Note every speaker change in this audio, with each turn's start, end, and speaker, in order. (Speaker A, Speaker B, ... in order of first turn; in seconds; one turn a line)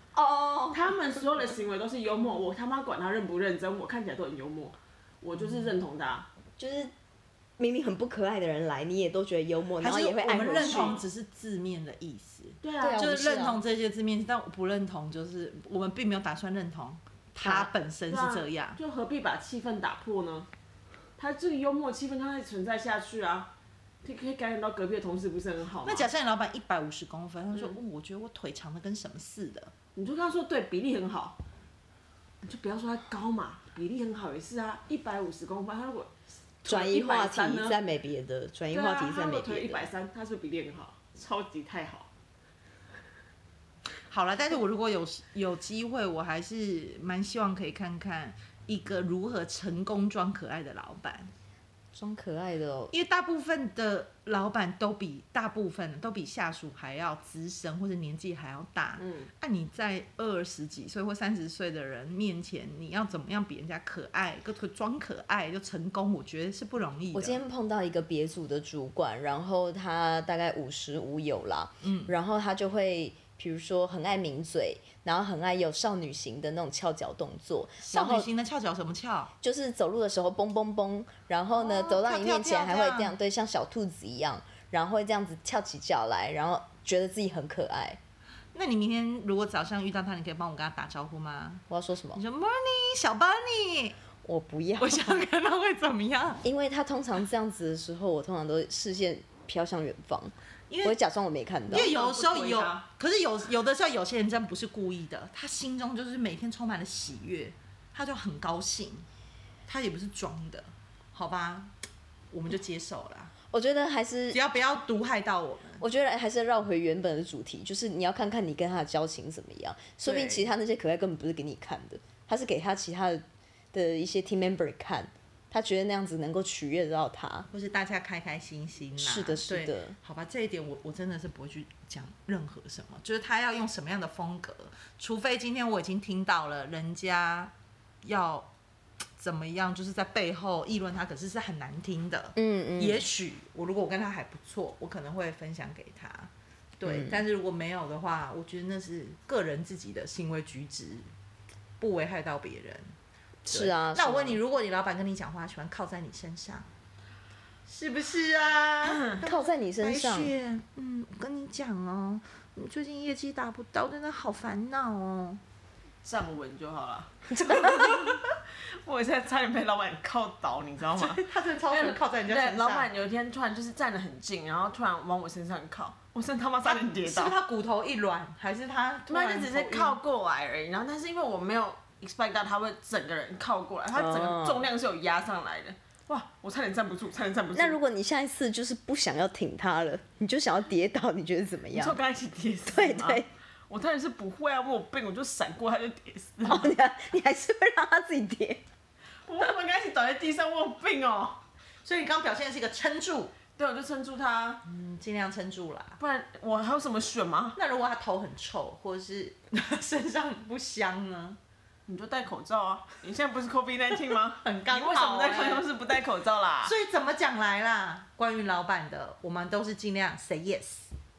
Speaker A: 0.1-0.8
Speaker B: 0.7-6.3
Speaker A: 6.6-6.9
Speaker A: 7.6-11.0
Speaker C: 9.8-18.8
Speaker B: 10.4-11.0
Speaker B: 12.6-13.1
Speaker A: 12.8-13.6
Speaker A: 17.4-17.7
Speaker B: 18.1-20.5
Speaker B: 21.2-23.5
Speaker B: 24.0-26.1
Speaker C: 25.8-29.7
Speaker B: 29.9-31.4
Speaker B: 32.4-36.1
Speaker B: 36.6-37.8
Speaker A: 36.7-39.9
Speaker B: 38.7-42.1
Speaker C: 44.1-51.3
Speaker A: 51.9-52.9
Speaker C: 52.9-67.4
Speaker B: 59.0-59.3
Speaker A: 67.1-78.3
Speaker C: 71.8-72.1
Speaker C: 77.9-79.3
Speaker A: 79.4-88.0
Speaker C: 81.5-83.1
Speaker C: 88.5-91.6
Speaker A: 91.7-92.2
Speaker C: 92.1-94.0
Speaker A: 94.2-95.2
Speaker C: 94.8-96.4
Speaker A: 96.4-101.9
Speaker C: 100.7-101.0
Speaker C: 101.7-109.1
Speaker B: 101.7-102.8
Speaker C: 109.7-111.7
Speaker C: 112.3-113.3
Speaker A: 113.5-114.4
Speaker C: 114.3-115.8
Speaker A: 115.8-127.5
Speaker C: 120.0-120.5
Speaker C: 127.5-137.5
Speaker A: 129.0-129.9
Speaker C: 138.0-138.5
Speaker C: 139.2-151.1
Speaker A: 142.3-143.0
Speaker A: 146.8-147.2
Speaker C: 151.8-152.9
Speaker A: 153.4-154.4
Speaker C: 153.5-156.7
Speaker C: 157.7-165.4
Speaker B: 158.8-159.2
Speaker A: 159.2-160.3
Speaker B: 166.0-177.3
Speaker A: 167.3-168.0
Speaker C: 170.9-172.9
Speaker C: 176.6-180.0
Speaker B: 179.1-187.8
Speaker A: 183.9-184.6
Speaker A: 187.5-192.0
Speaker B: 191.7-196.7
Speaker A: 192.7-193.3
Speaker A: 196.4-198.6
Speaker B: 199.2-201.4
Speaker C: 201.8-203.3
Speaker B: 203.6-204.6
Speaker C: 204.6-206.0
Speaker B: 206.0-207.6
Speaker C: 207.5-211.4
Speaker B: 211.9-216.7
Speaker C: 214.4-215.7
Speaker C: 216.6-220.9